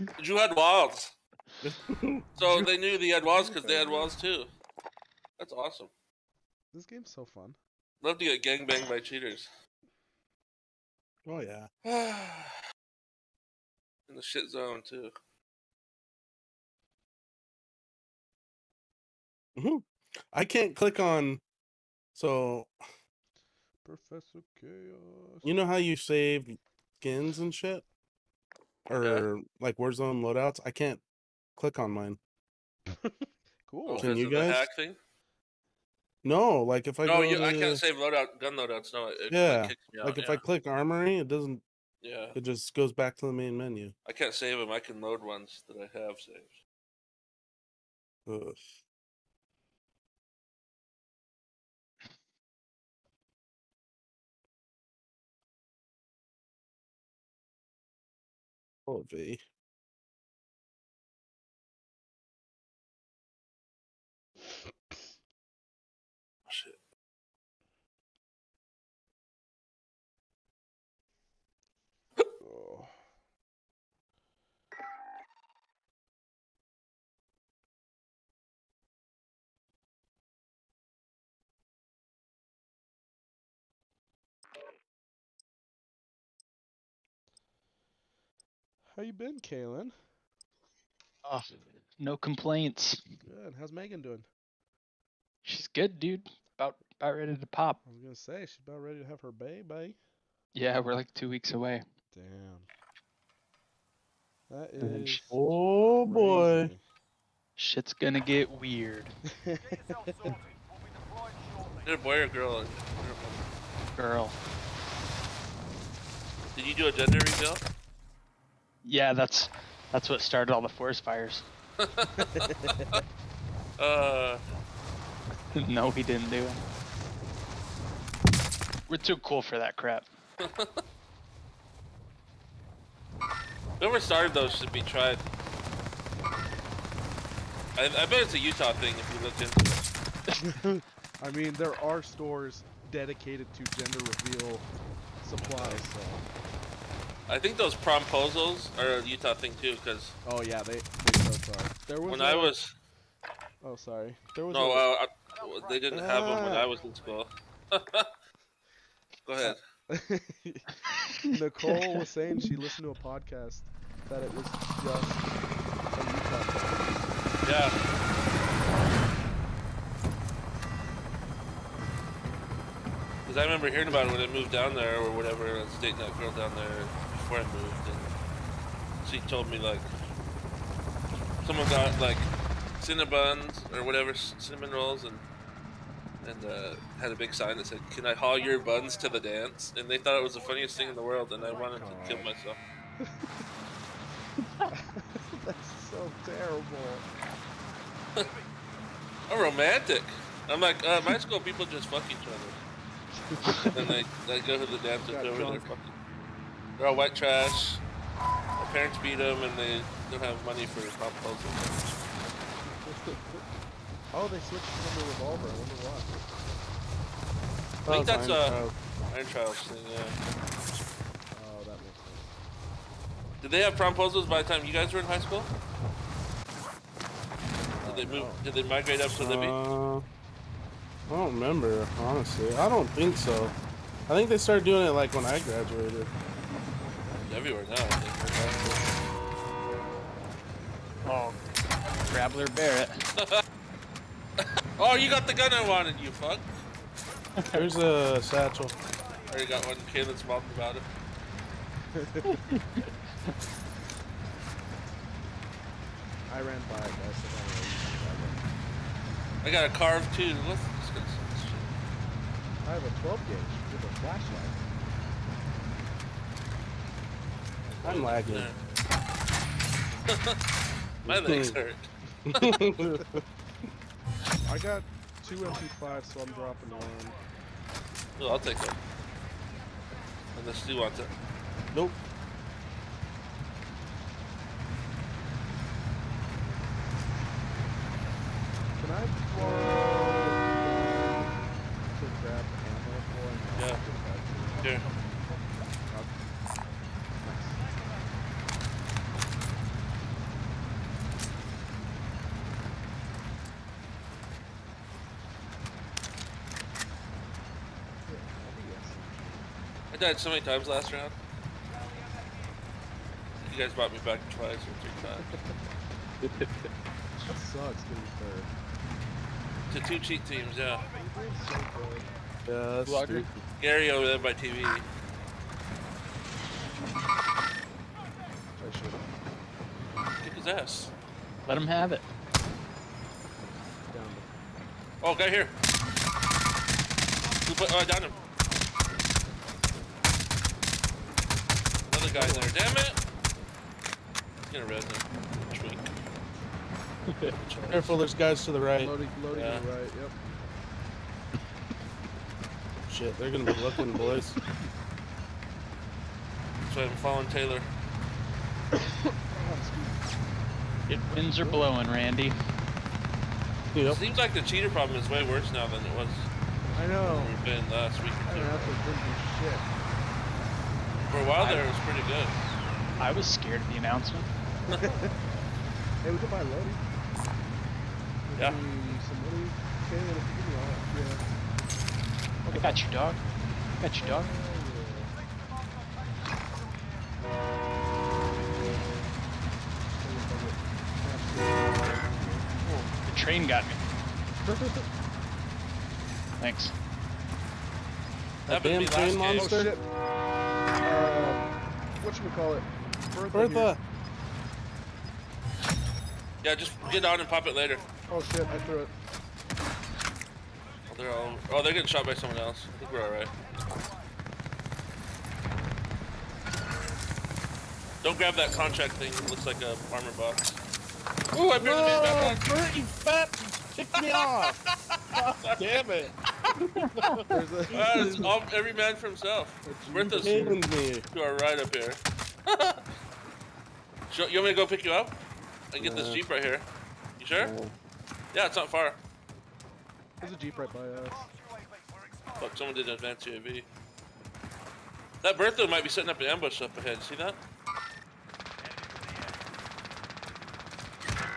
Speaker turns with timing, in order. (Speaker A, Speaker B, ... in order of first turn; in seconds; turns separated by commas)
Speaker A: 0.2-1.1, Speaker B: 1.6-2.7, Speaker A: 2.4-4.5, Speaker C: 3.2-4.1, Speaker A: 5.4-5.9, Speaker C: 6.7-7.6, Speaker A: 8.0-9.5, Speaker B: 11.2-11.7, Speaker A: 11.8-12.6, Speaker A: 14.1-15.1, Speaker B: 19.6-21.4, Speaker B: 22.1-22.7, Speaker C: 23.9-25.5, Speaker B: 25.4-27.8, Speaker B: 28.9-31.0, Speaker A: 28.9-29.3, Speaker B: 31.6-32.2, Speaker C: 32.9-34.2, Speaker A: 33.8-35.0, Speaker B: 34.0-34.6, Speaker B: 36.2-37.8, Speaker A: 37.0-40.4, Speaker B: 39.3-41.6, Speaker A: 42.0-42.4, Speaker B: 42.3-43.9, Speaker A: 44.0-46.6, Speaker B: 48.3-48.6, Speaker B: 58.9-59.4, Speaker A: 66.5-66.8, Speaker C: 72.4-73.0, Speaker C: 88.9-90.0, Speaker D: 91.2-93.0, Speaker C: 93.2-94.3, Speaker D: 95.5-97.8, Speaker C: 97.8-100.0, Speaker D: 100.5-101.8, Speaker C: 102.1-102.7, Speaker C: 104.5-105.4, Speaker B: 104.8-106.7, Speaker D: 104.8-105.2, Speaker C: 106.0-106.8, Speaker D: 107.6-109.1, Speaker C: 109.4-110.4, Speaker A: 111.8-113.5, Speaker D: 114.0-114.4, Speaker A: 116.5-117.6, Speaker D: 118.8-121.5, Speaker A: 121.8-123.0, Speaker C: 122.2-122.8, Speaker A: 123.8-124.4, Speaker D: 125.5-126.6, Speaker D: 128.9-130.1, Speaker A: 130.4-130.8, Speaker A: 133.8-135.2, Speaker A: 137.8-139.9, Speaker D: 140.3-140.6, Speaker C: 140.5-146.2, Speaker A: 145.3-145.8, Speaker A: 147.3-150.2, Speaker C: 150.2-152.6, Speaker A: 152.1-152.8, Speaker C: 153.6-154.9, Speaker A: 154.5-158.1, Speaker C: 155.9-156.7, Speaker A: 159.2-159.6, Speaker C: 159.4-165.4, Speaker C: 165.9-167.1, Speaker A: 167.4-167.8, Speaker A: 173.2-178.1, Speaker A: 179.0-179.9, Speaker A: 181.4-185.2, Speaker A: 186.2-192.6, Speaker C: 191.4-192.3, Speaker C: 193.0-193.4, Speaker C: 194.7-197.1, Speaker A: 199.3-202.6, Speaker C: 203.1-203.9, Speaker A: 203.7-205.9, Speaker C: 205.0-205.7, Speaker A: 206.8-207.8, Speaker A: 208.6-212.0, Speaker C: 212.8-213.4, Speaker C: 214.1-216.2, Speaker A: 217.8-220.2, Speaker B: 217.8-218.8, Speaker C: 221.3-222.3, Speaker A: 223.4-225.5, Speaker C: 227.8-228.4, Speaker A: 227.8-229.6, Speaker B: 229.2-230.1, Speaker B: 231.1-233.5, Speaker B: 234.1-236.1, Speaker A: 237.2-238.8, Speaker B: 238.3-238.8, Speaker D: 241.0-241.4, Speaker D: 242.1-243.0, Speaker A: 243.2-243.4, Speaker A: 244.8-246.5, Speaker B: 247.5-248.8, Speaker A: 249.3-250.8, Speaker C: 251.9-252.4, Speaker D: 252.5-252.8, Speaker C: 256.3-258.4, Speaker A: 259.4-261.8, Speaker C: 262.6-264.6, Speaker A: 267.8-268.6, Speaker B: 267.8-268.5, Speaker A: 270.1-270.4, Speaker B: 271.0-271.6, Speaker A: 271.0-272.6, Speaker B: 272.3-273.2, Speaker C: 274.4-277.2, Speaker A: 278.2-278.8, Speaker A: 280.3-281.1, Speaker B: 281.7-282.0, Speaker C: 288.8-294.6, Speaker A: 293.6-293.8, Speaker A: 294.6-294.9, Speaker C: 295.9-296.2, Speaker C: 297.2-297.7, Speaker C: 308.1-309.5, Speaker A: 309.9-311.2, Speaker A: 313.4-315.4, Speaker C: 315.2-315.6, Speaker C: 317.2-318.5, Speaker A: 319.7-320.9, Speaker C: 320.9-322.1, Speaker B: 322.4-323.4, Speaker D: 322.9-323.3, Speaker A: 323.6-324.9, Speaker C: 328.6-329.1, Speaker A: 330.2-330.9, Speaker D: 331.4-332.0, Speaker C: 333.9-334.4, Speaker A: 335.0-335.6, Speaker A: 337.4-338.2, Speaker A: 341.8-343.0, Speaker C: 342.1-342.6, Speaker A: 344.5-345.9, Speaker D: 347.1-347.4, Speaker A: 347.5-348.0, Speaker B: 347.5-348.9, Speaker C: 348.8-350.2, Speaker A: 349.3-349.6, Speaker B: 352.9-354.4, Speaker A: 356.7-357.7, Speaker C: 359.1-360.0, Speaker C: 360.9-361.7, Speaker D: 360.9-362.3, Speaker B: 363.7-364.0, Speaker A: 363.9-368.8, Speaker C: 366.6-367.4, Speaker C: 368.3-369.7, Speaker A: 371.1-372.4, Speaker D: 371.4-371.6, Speaker D: 373.0-374.3, Speaker A: 374.7-374.9, Speaker C: 374.7-375.1, Speaker C: 376.0-376.9, Speaker C: 378.3-381.3, Speaker A: 378.4-378.6, Speaker C: 382.4-382.8, Speaker D: 382.5-383.2, Speaker D: 383.8-384.3, Speaker C: 384.0-385.2, Speaker C: 390.0-392.5, Speaker D: 392.6-393.9, Speaker C: 394.3-394.9, Speaker D: 396.4-396.7, Speaker A: 398.5-399.7, Speaker B: 398.5-399.7, Speaker C: 399.2-399.9, Speaker C: 400.8-403.7, Speaker B: 403.3-403.8, Speaker A: 406.4-407.9, Speaker C: 408.1-408.9, Speaker A: 410.9-413.4, Speaker A: 418.0-420.6, Speaker A: 421.3-422.4, Speaker B: 421.6-424.6, Speaker A: 424.1-426.1, Speaker B: 425.1-428.3, Speaker C: 427.3-428.3, Speaker A: 427.7-432.8, Speaker C: 429.6-430.6, Speaker B: 430.0-431.1, Speaker A: 434.1-435.2, Speaker A: 435.7-436.7, Speaker B: 435.8-436.2, Speaker A: 437.2-437.5, Speaker B: 437.4-437.7, Speaker A: 438.3-439.0, Speaker C: 440.2-441.3, Speaker A: 442.4-443.7, Speaker A: 445.2-447.4